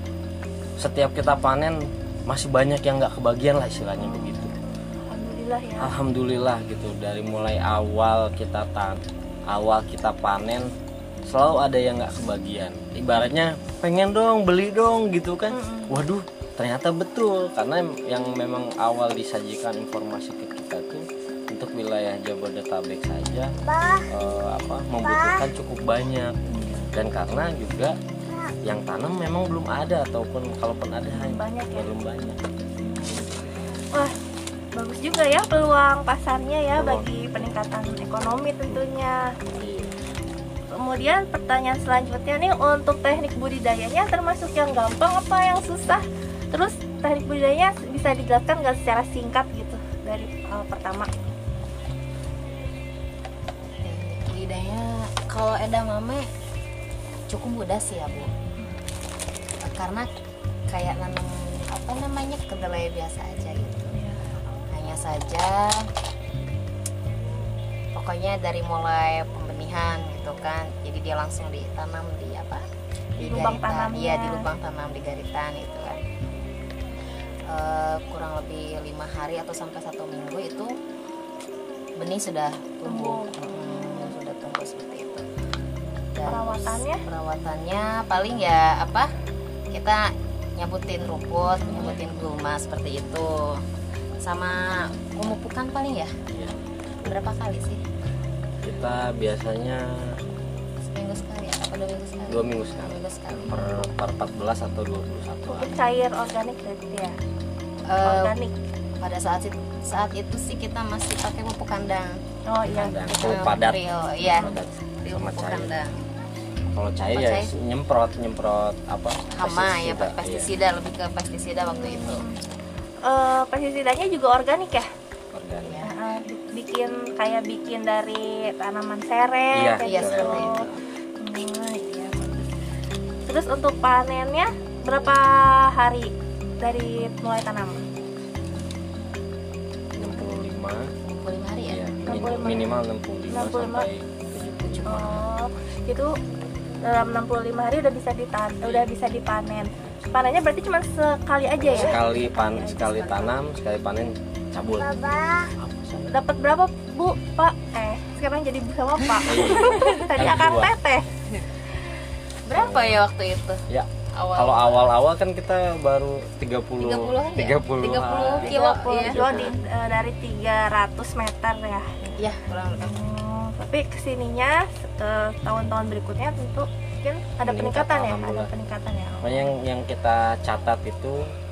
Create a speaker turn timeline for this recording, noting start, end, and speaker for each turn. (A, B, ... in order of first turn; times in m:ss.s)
0:00.8-0:04.5 A
0:04.0-0:05.9 B
0:05.8-0:10.7 A
0:11.3-0:23.5 A
0:15.5-0:16.0 B
0:24.1-0:26.3 A
0:26.5-0:26.9 B
0:26.9-0:27.9 A
0:28.6-0:32.4 A
0:31.1-0:31.9 B
0:32.8-0:33.1 B
0:33.0-0:33.5 A
0:34.8-0:39.3 B
0:36.8-0:37.1 A
0:39.5-0:40.0 A
0:40.7-0:51.1 B
0:53.8-0:56.3 C
0:57.3-0:58.3 C
0:59.7-1:00.1 C
1:00.7-1:04.0 C
1:03.9-1:04.2 B
1:04.7-1:05.8 C
1:07.9-1:12.6 C
1:13.2-1:14.4 B
1:13.2-1:16.0 C
1:17.5-1:20.7 C
1:22.0-1:25.2 C
1:22.9-1:24.0 B
1:26.2-1:29.1 C
1:26.2-1:27.0 B
1:29.7-1:30.1 C
1:30.6-1:33.5 C
1:31.7-1:32.0 A
1:34.2-1:36.1 C
1:36.3-1:36.6 A
1:37.0-1:37.8 C
1:38.6-1:39.8 A
1:40.9-1:43.8 C
1:42.3-1:45.8 A
1:45.5-1:47.2 B
1:47.9-1:48.4 C
1:48.0-1:48.5 B
1:49.0-1:52.1 C
1:52.5-1:53.5 B
1:52.7-1:55.7 A
1:53.2-1:56.0 C
1:56.7-2:00.5 A
1:57.2-1:57.5 C
1:59.3-2:02.3 C
2:01.6-2:02.4 B
2:03.1-2:04.9 B
2:05.3-2:05.8 A
2:05.6-2:05.9 C
2:05.8-2:10.6 B
2:09.5-2:10.7 A
2:09.8-2:10.8 C
2:11.2-2:12.5 B
2:13.3-2:17.8 B
2:20.0-2:20.9 A
2:21.0-2:22.2 C
2:21.7-2:25.2 A
2:22.1-2:22.8 B
2:23.3-2:23.9 B
2:24.9-2:26.1 B
2:26.8-2:33.4 B
2:28.6-2:28.9 A
2:31.6-2:36.2 A
2:36.1-2:41.1 B
2:39.3-2:40.8 A
2:39.4-2:40.0 C
2:42.4-2:45.0 C
2:42.5-2:43.0 A
2:43.7-2:49.6 A
2:46.8-2:49.5 C
2:48.4-2:51.9 B
2:52.2-2:52.9 C
2:52.8-2:59.5 B
2:57.5-2:58.5 A
2:59.2-3:01.2 A